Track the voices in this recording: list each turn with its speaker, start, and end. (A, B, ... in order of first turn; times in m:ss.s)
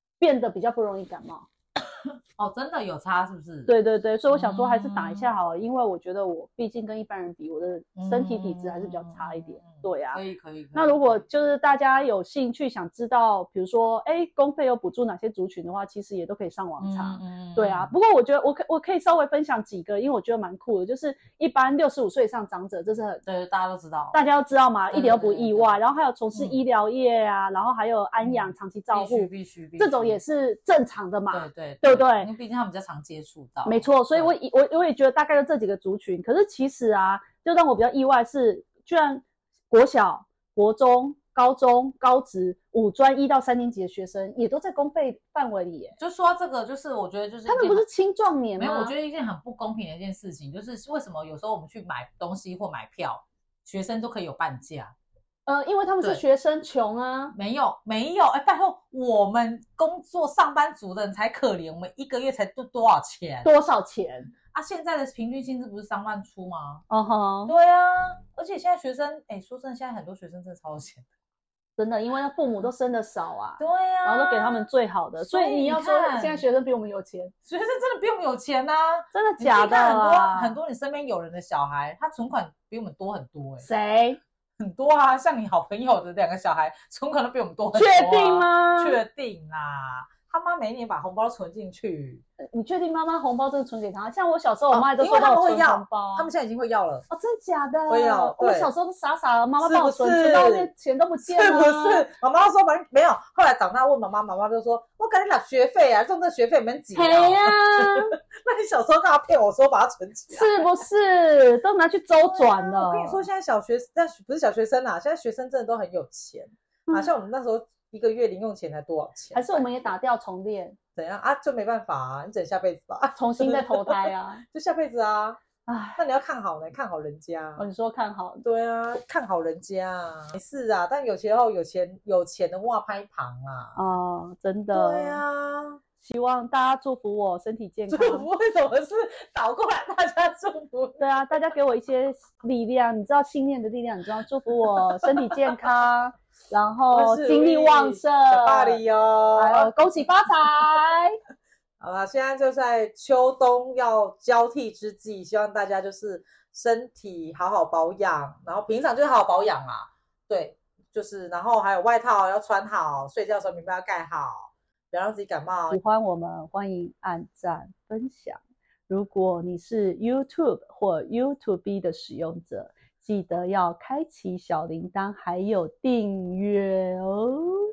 0:00.2-0:01.5 A
0:01.8-0:03.7 B
0:03.7-0:10.2 A
0:04.3-0:05.3 B
0:08.0-0:11.2 B
0:10.7-0:23.2 A
0:16.8-0:17.9 B
0:23.2-0:24.2 B
0:24.1-0:32.3 A
0:24.9-0:25.7 B
0:26.3-0:26.6 B
0:28.2-0:30.2 B
0:31.3-0:34.3 B
0:33.6-0:46.0 A
0:46.0-0:47.8 B
0:47.5-0:48.9 A
0:48.6-0:54.9 B
0:55.5-0:57.3 A
0:57.3-1:03.5 B
1:03.4-1:04.3 A
1:04.5-1:06.8 B
1:06.9-1:07.5 A
1:07.5-1:11.0 B
1:11.8-1:17.3 A
1:13.6-1:14.7 B
1:15.2-1:16.4 B
1:17.4-1:23.7 B
1:19.1-1:20.6 A
1:23.6-1:24.2 A
1:24.6-1:32.2 B
1:27.7-1:29.0 A
1:32.4-1:36.3 A
1:34.7-1:37.0 B
1:37.1-1:42.1 A
1:37.9-1:38.7 B
1:39.6-1:40.7 B
1:41.2-1:50.8 B
1:46.9-1:48.2 A
1:50.3-1:53.2 A
1:52.2-1:59.7 B
1:59.3-2:00.8 A
2:01.0-2:05.4 B
2:03.1-2:04.4 A
2:05.6-2:06.0 A
2:06.0-2:07.6 B
2:07.6-2:08.4 A
2:08.4-2:13.8 B
2:13.8-2:15.2 A
2:14.7-2:15.8 B
2:16.0-2:18.3 A
2:17.9-2:21.1 B
2:21.0-2:28.8 A
2:24.6-2:25.7 B
2:26.9-2:29.7 B
2:29.4-2:31.2 A
2:31.8-2:45.8 B
2:45.7-2:57.6 A